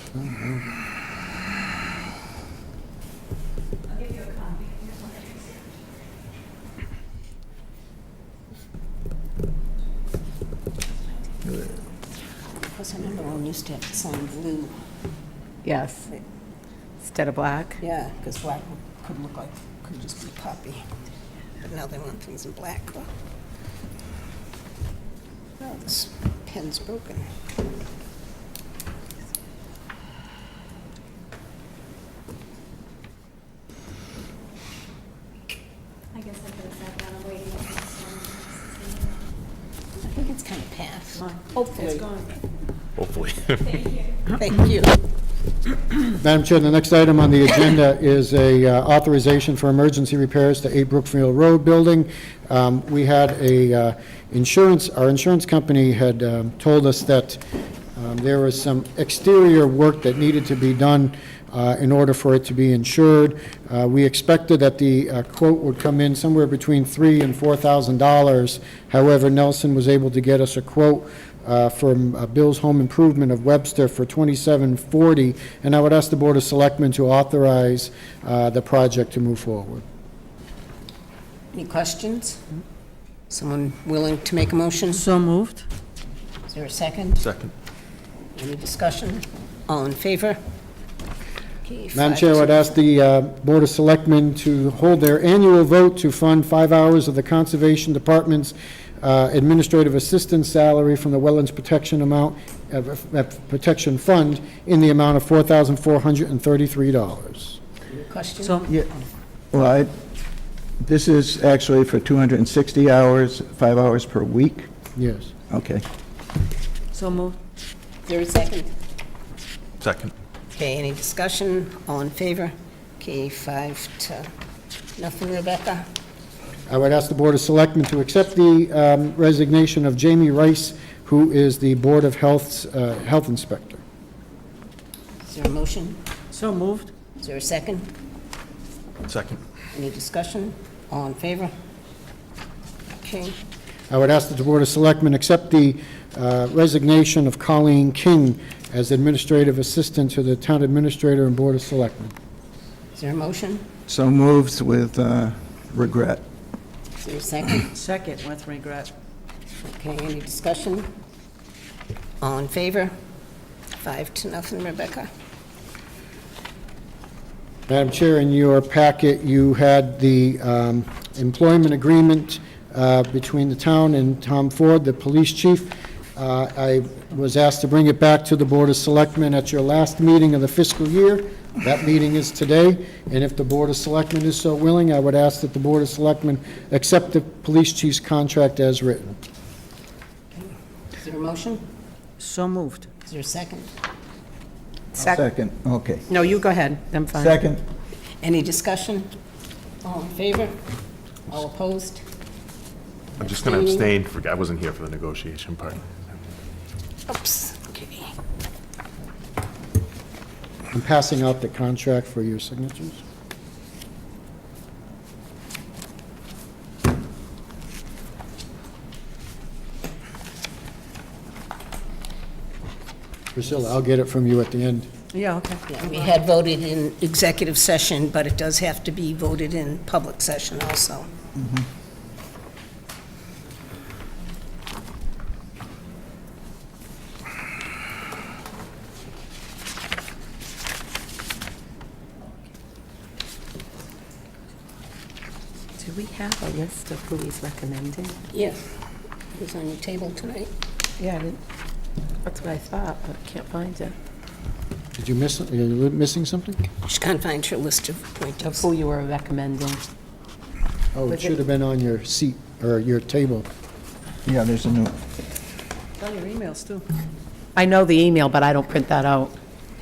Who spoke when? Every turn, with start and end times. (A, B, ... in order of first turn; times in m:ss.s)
0:00.2-0:00.6 A
0:03.9-0:05.6 B
0:12.7-0:14.8 C
0:15.6-0:16.1 D
0:17.0-0:17.8 D
0:17.8-0:20.8 C
0:21.6-0:23.1 C
0:25.6-0:27.3 C
0:36.1-0:39.2 B
0:40.0-0:42.0 C
0:43.0-0:43.8 E
0:43.6-0:44.2 B
0:44.3-0:45.0 C
0:46.2-0:57.4 A
0:58.0-1:19.8 A
1:21.5-1:22.4 C
1:23.3-1:25.1 C
1:24.9-1:25.6 F
1:26.5-1:27.2 C
1:27.2-1:27.5 E
1:28.4-1:30.4 C
1:31.6-1:32.8 C
1:32.0-1:47.6 A
1:48.0-1:48.6 C
1:48.4-1:48.7 F
1:49.5-1:49.9 G
1:50.8-1:54.7 G
1:55.0-1:55.3 A
1:55.5-1:55.8 G
1:56.9-1:57.4 F
1:58.1-1:58.7 C
1:59.8-2:00.1 E
2:00.5-2:04.3 C
2:05.0-2:05.9 C
2:06.7-2:13.8 A
2:15.3-2:16.0 C
2:16.3-2:16.9 F
2:17.2-2:17.9 C
2:19.1-2:19.4 E
2:19.7-2:21.5 C
2:23.0-2:23.4 C
2:23.9-2:32.1 A
2:33.0-2:33.7 C
2:33.9-2:36.2 G
2:37.0-2:37.8 C
2:37.7-2:38.9 F
2:39.6-2:40.9 C
2:42.2-2:42.9 C
2:43.8-2:45.1 C
2:47.7-3:09.2 A
3:10.4-3:11.6 C
3:12.2-3:12.9 F
3:13.1-3:13.7 C
3:15.0-3:15.2 D
3:15.0-3:16.0 G
3:16.1-3:17.4 D
3:17.2-3:17.6 G
3:18.2-3:19.1 C
3:19.8-3:20.6 C
3:21.3-3:22.0 C
3:23.2-3:23.9 C
3:23.2-3:26.0 E
3:27.1-3:28.1 C
3:30.7-3:33.0 A
3:43.4-3:44.9 A
3:45.1-3:45.6 F
3:45.7-3:51.1 C
4:05.8-4:08.2 D
4:08.3-4:08.8 C
4:09.4-4:10.5 C
4:11.0-4:11.4 D
4:12.2-4:14.0 D
4:15.0-4:16.6 A
4:16.8-4:18.7 C
4:18.4-4:19.8 D
4:20.9-4:23.5 A
4:24.3-4:25.0 G
4:26.0-4:26.8 F
4:27.6-4:29.3 D